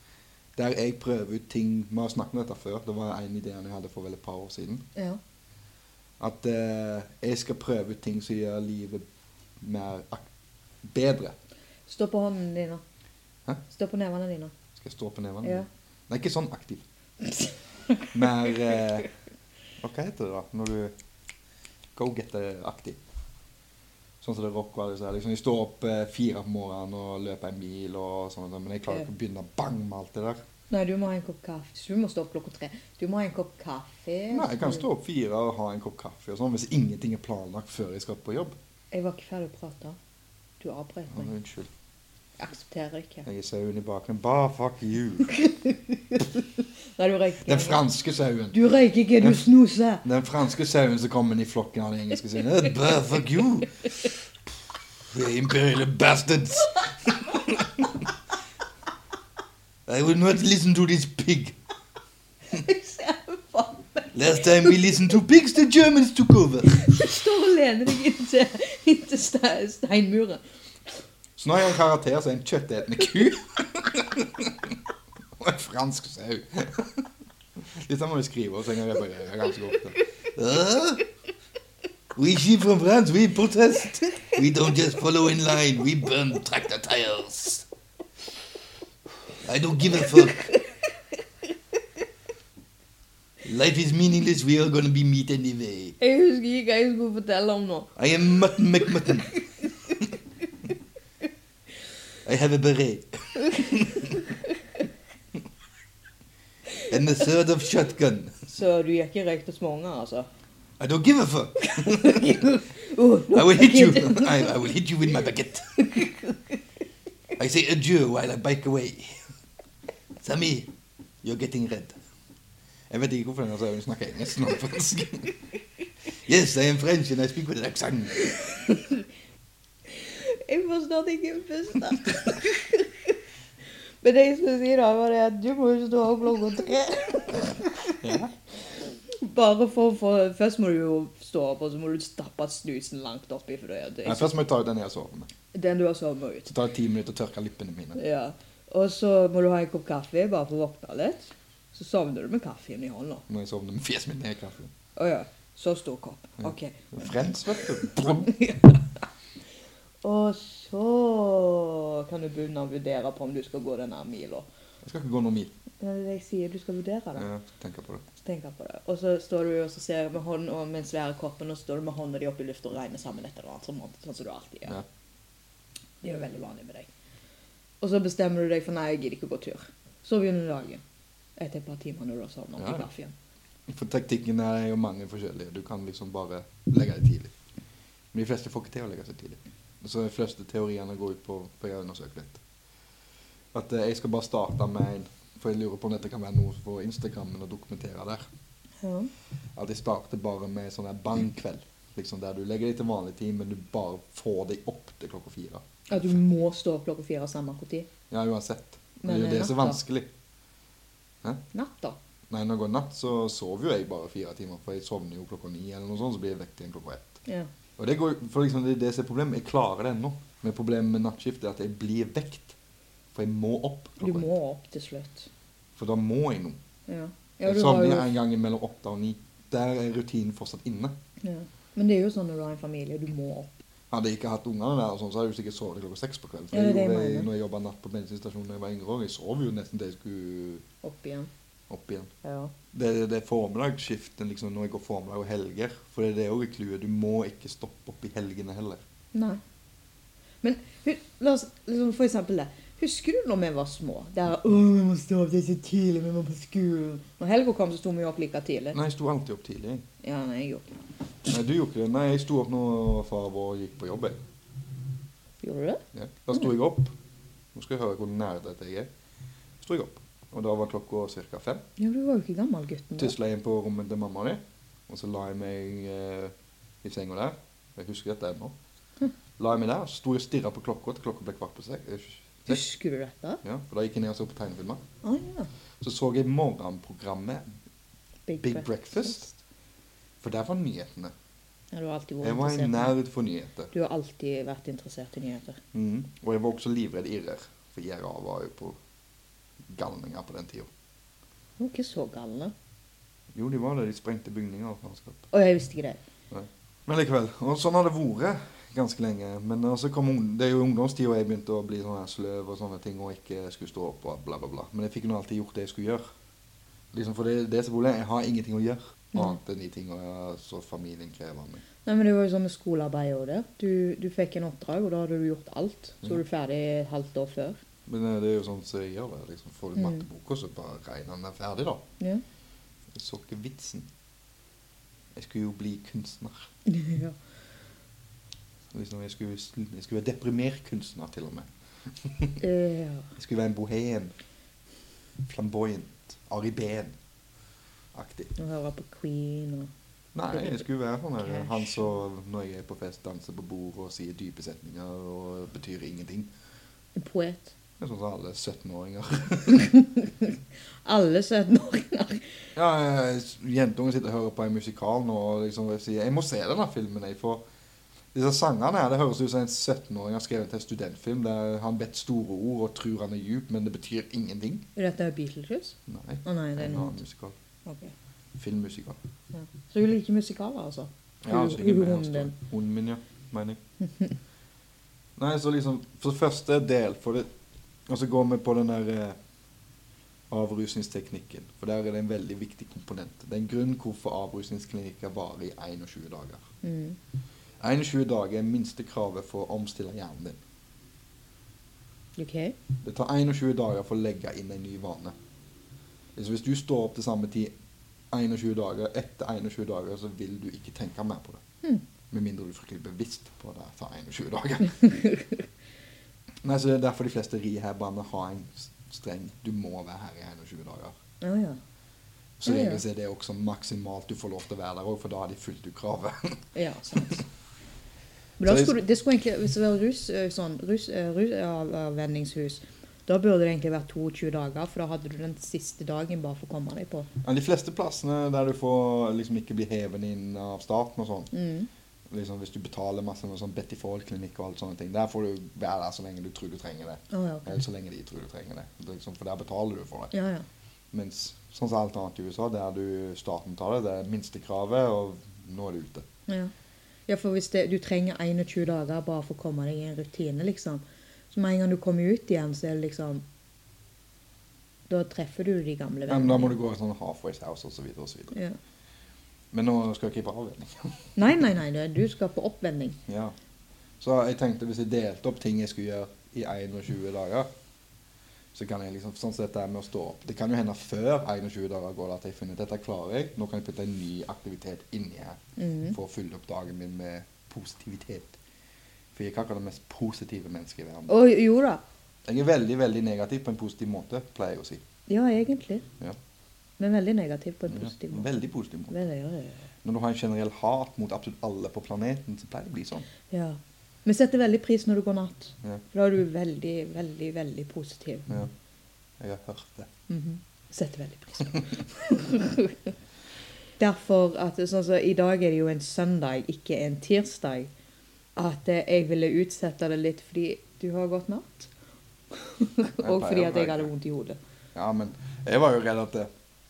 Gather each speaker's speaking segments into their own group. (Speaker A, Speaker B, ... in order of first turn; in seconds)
Speaker A: 0.6-4.8, 6.2-9.0, 9.6-10.3, 10.8-11.4, 14.8-16.8, 18.1-19.1, 19.8-20.9, 21.9-23.0, 24.2-30.4, 34.3-38.5, 41.1-41.7, 43.2-45.5, 47.5-48.6, 49.2-49.5, 50.0-54.2, 54.7-58.1, 59.9-61.6, 64.1-66.8, 71.4-74.8, 75.4-77.1, 77.6-81.0, 82.2-87.7, 89.4-90.5, 93.4-96.0, 98.0-99.3, 102.2-104.2, 106.9-108.3, 110.8-112.5, 113.3-116.0, 117.4-119.2, 120.2-120.7, 121.2-122.0, 122.9-125.3, 126.2-128.3, 138.0-138.3, 144.1-145.3, 146.5-148.0, 153.3-154.7, 156.4-158.3, 164.8-165.5, 167.2-168.1, 182.6-182.9, 183.7-187.3, 188.1-192.4, 193.5-198.3, 199.6-206.2, 208.1-210.1, 212.3-217.2, 217.8-222.6, 223.1-224.3, 225.8-226.6, 227.4-230.9, 233.9-240.6, 241.7-242.1, 242.7-248.8, 258.7-259.8, 261.3-264.2, 265.9-266.9, 267.5-268.9, 269.6-271.6, 273.0-278.6, 279.4-282.6, 283.4-284.8, 285.8-287.5, 288.4-289.3, 290.2-291.1, 292.2-293.7, 295.7-298.8, 299.7-300.7, 303.3-305.3, 306.3-316.1, 316.9-321.6, 327.9-331.8, 332.9-333.9, 335.1-336.5, 338.7-342.4, 343.2-344.1, 345.3-347.0, 347.9-348.3, 350.1-356.3, 357.8-359.7, 362.6-367.4, 368.1-374.6, 375.9-377.4, 378.4-379.0, 381.2-383.6, 385.2-387.3, 387.9-389.2, 390.3-396.5, 397.6-400.4, 402.8-405.2, 406.2-407.5, 408.1-411.4, 412.1-414.8, 416.4-421.0, 422.4-426.4, 428.4-428.8, 437.2-441.3, 442.1-450.1, 450.9-456.1, 466.1-468.4, 469.5-471.2, 473.1-473.4, 474.0-477.5, 478.5-485.4, 485.9-488.4, 489.1-491.2, 492.2-494.8, 497.7-499.0, 499.8-503.1, 509.2-509.9, 523.0-523.9, 524.8-526.3
Speaker B: 11.9-12.8, 13.7-14.5, 17.2-18.8, 30.7-34.9, 38.9-40.0, 40.6-41.3, 42.4-43.3, 45.3-47.8, 48.5-50.0, 62.5-65.1, 66.7-70.4, 89.9-90.9, 96.0-100.0, 103.4-104.5, 106.7-107.0, 108.5-110.3, 111.6-114.6, 115.8-116.6, 128.4-129.0, 129.9-133.2, 134.0-138.1, 139.1-144.4, 145.5-146.5, 147.9-153.2, 155.0-156.9, 157.8-158.9, 160.0-164.5, 165.8-167.3, 168.2-174.8, 176.0-176.9, 177.8-180.8, 181.4-183.1, 198.8-199.1, 205.9-207.9, 209.0-209.8, 211.5-212.0, 224.0-225.3, 226.9-228.1, 231.2-233.5, 236.5-237.3, 240.8-241.3, 242.2-242.5, 249.1-249.4, 250.4-258.8, 260.0-260.8, 265.4-265.8, 271.8-273.1, 282.5-283.4, 285.0-285.5, 288.3-289.4, 291.7-292.9, 293.7-295.6, 301.6-302.5, 305.3-306.0, 321.9-327.6, 329.8-330.1, 336.7-337.2, 342.4-343.1, 348.4-349.7, 350.3-350.6, 351.2-351.8, 357.0-357.5, 359.5-362.3, 374.8-377.0, 377.7-377.9, 379.3-382.4, 383.8-384.1, 396.6-397.0, 402.2-402.6, 414.8-415.4, 421.2-421.6, 422.5-422.8, 426.6-427.2, 428.4-437.1, 441.3-441.7, 447.1-447.6, 450.1-450.4, 457.1-463.2, 464.9-466.6, 468.3-468.6, 471.2-473.0, 485.6-486.0, 491.1-491.8, 495.1-495.9, 496.8-499.6, 503.3-508.3, 510.1-512.9, 513.8-517.7, 518.4-521.7, 522.3-524.4